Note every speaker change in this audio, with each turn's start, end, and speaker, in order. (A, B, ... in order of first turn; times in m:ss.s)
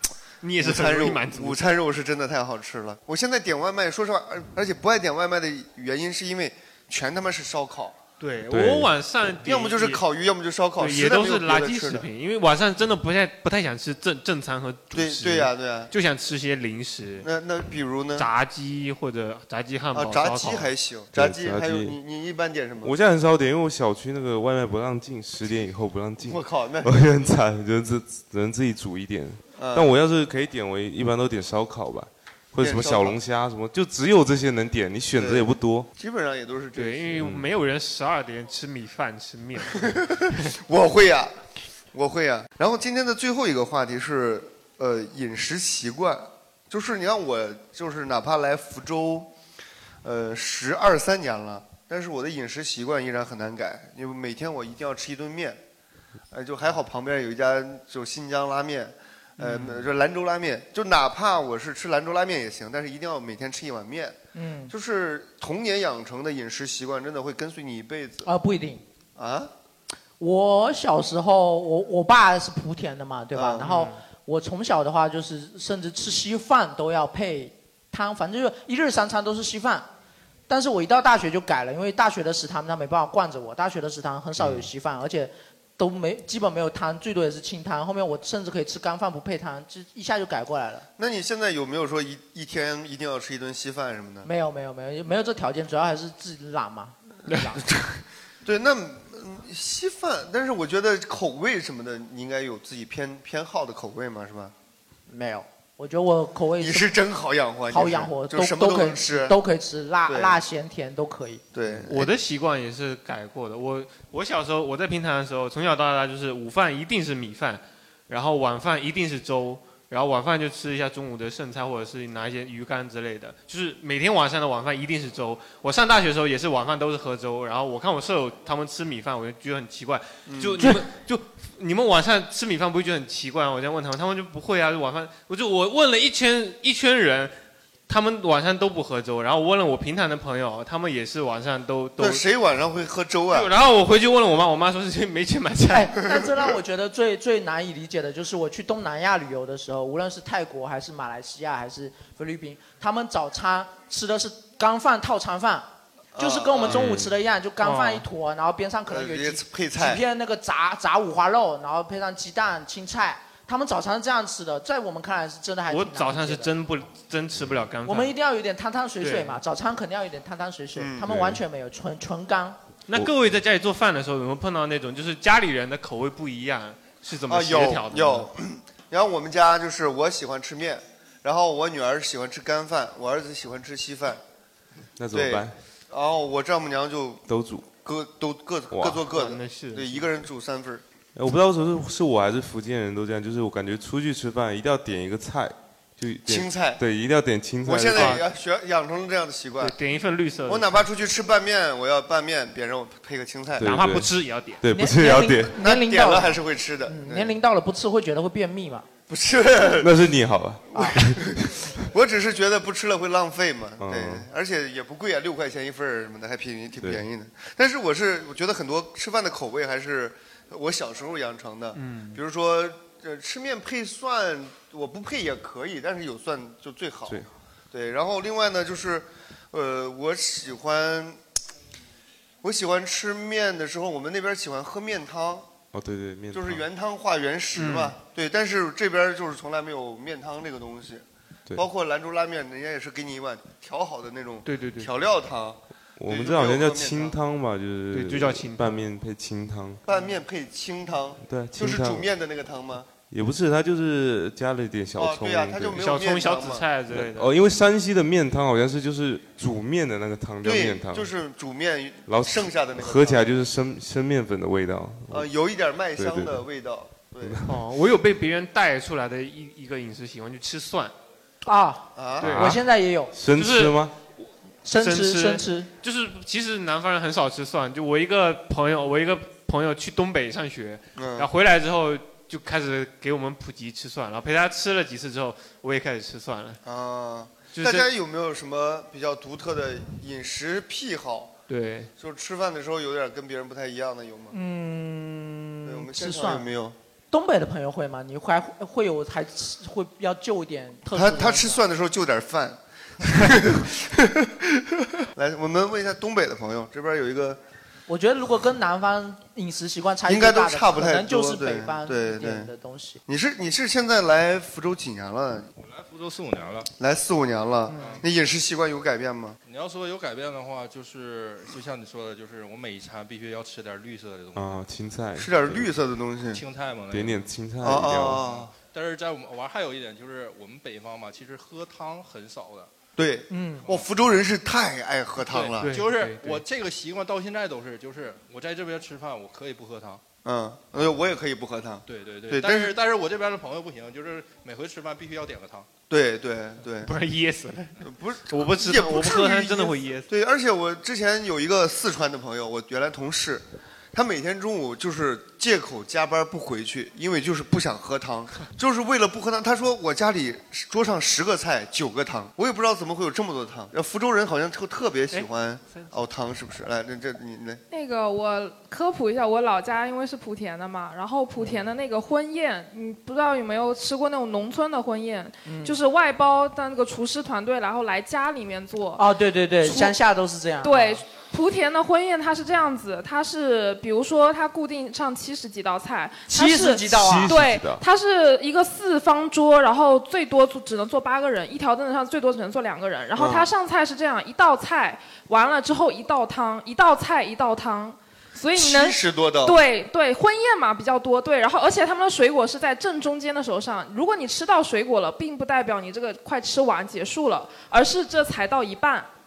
0:00.4-0:01.6 A
0:00.6-0:08.0 B
0:08.2-0:10.0 A
0:08.5-0:08.9 C
0:09.4-0:12.1 B
0:10.8-0:17.3 A
0:14.9-0:15.9 B
0:17.2-0:18.3 B
0:18.2-0:20.7 A
0:19.9-0:22.9 B
0:21.1-0:21.9 C
0:22.8-0:35.9 C
0:26.2-0:27.0 B
0:29.6-0:29.9 B
0:32.6-0:33.2 B
0:35.2-0:37.2 B
0:36.7-0:40.0 A
0:37.2-0:37.5 C
0:39.8-0:41.3 B
0:41.9-0:49.3 B
0:50.0-0:55.6 B
0:56.3-1:04.2 B
0:59.4-0:59.8 A
1:04.3-1:04.7 D
1:04.7-1:08.3 B
1:08.2-1:08.8 D
1:09.2-1:09.5 B
1:10.2-1:19.9 D
1:13.3-1:13.8 B
1:13.6-1:14.0 A
1:20.5-1:30.8 D
1:24.4-1:24.6 C
1:31.0-1:34.3 B
1:34.2-1:37.6 D
1:37.3-1:37.6 A
1:38.4-1:44.5 B
1:45.1-1:46.9 D
1:46.6-1:49.4 B
1:47.7-1:51.4 D
1:50.1-1:50.4 B
1:51.5-1:52.1 B
1:51.8-2:17.3 A
2:10.3-2:10.8 B
2:17.9-2:22.2 A
2:22.0-2:23.5 B
2:23.3-2:25.9 A
2:25.7-2:46.5 D
2:36.1-2:36.9 B
2:36.7-2:37.1 C
2:37.6-2:38.0 A
2:38.9-2:40.0 B
2:45.7-2:48.1 A
2:47.8-2:52.6 D
2:49.0-2:49.4 A
2:50.8-2:51.4 B
2:52.9-2:58.3 A
2:57.3-3:04.2 B
3:05.0-3:05.6 C
3:05.1-3:07.2 B
3:07.3-3:07.7 C
3:07.8-3:10.8 B
3:08.7-3:09.0 C
3:09.0-3:10.0 A
3:11.1-3:18.2 C
3:16.3-3:16.8 B
3:17.6-3:19.8 B
3:17.9-3:18.2 A
3:19.6-3:20.8 A
3:20.5-3:23.8 B
3:23.6-3:25.6 C
3:23.6-3:24.6 A
3:24.7-3:28.8 D
3:25.5-3:27.4 B
3:29.1-3:29.9 B
3:29.8-3:31.7 C
3:30.8-3:51.2 B
3:33.8-3:34.2 C
3:41.7-3:42.2 A
3:52.4-3:55.5 B
3:55.7-3:56.6 C
3:56.3-4:07.2 B
3:57.6-3:58.0 A
4:04.4-4:04.9 A
4:06.0-4:09.8 C
4:07.9-4:08.8 A
4:09.8-4:12.9 B
4:11.2-4:12.0 C
4:13.1-4:15.8 C
4:15.0-4:16.6 B
4:15.8-4:17.3 A
4:16.9-4:21.1 C
4:20.4-4:23.3 B
4:22.1-4:25.3 C
4:25.1-4:27.4 B
4:26.0-4:26.4 C
4:27.2-4:27.5 C
4:27.4-4:30.9 A
4:31.4-4:33.1 D
4:32.0-4:32.4 B
4:32.2-4:33.9 C
4:32.2-4:32.6 A
4:33.3-4:33.8 A
4:34.6-4:35.7 D
4:34.7-4:46.6 A
4:40.9-4:41.3 B
4:46.6-4:51.3 B
4:47.5-4:47.9 A
4:51.5-4:51.9 A
4:52.0-4:54.4 B
4:54.3-4:56.4 D
4:55.6-4:56.8 B
4:57.1-5:01.6 D
5:00.9-5:07.4 B
5:07.9-5:13.0 D
5:10.0-5:12.5 B
5:13.1-5:15.5 B
5:15.6-5:16.7 E
5:16.8-5:19.4 B
5:17.7-5:18.0 D
5:17.7-5:18.0 E
5:19.4-5:24.6 E
5:24.3-5:25.7 C
5:25.2-5:26.4 B
5:26.3-5:27.3 E
5:26.9-5:28.2 C
5:27.6-5:28.5 B
5:27.8-5:32.7 E
5:33.0-5:35.7 B
5:33.3-5:33.6 D
5:35.2-5:40.0 E
5:35.6-5:36.4 A
5:40.2-5:42.8 B
5:41.9-5:45.7 E
5:45.9-5:46.9 B
5:46.8-5:50.1 A
5:47.8-6:07.6 B
6:05.1-6:05.9 A
6:07.7-6:19.0 F
6:15.4-6:15.8 D
6:19.0-6:21.0 D
6:19.6-6:20.0 F
6:20.6-6:49.1 F
6:26.3-6:27.3 D
6:26.9-6:27.8 C
6:33.2-6:33.5 B
6:38.6-6:39.6 B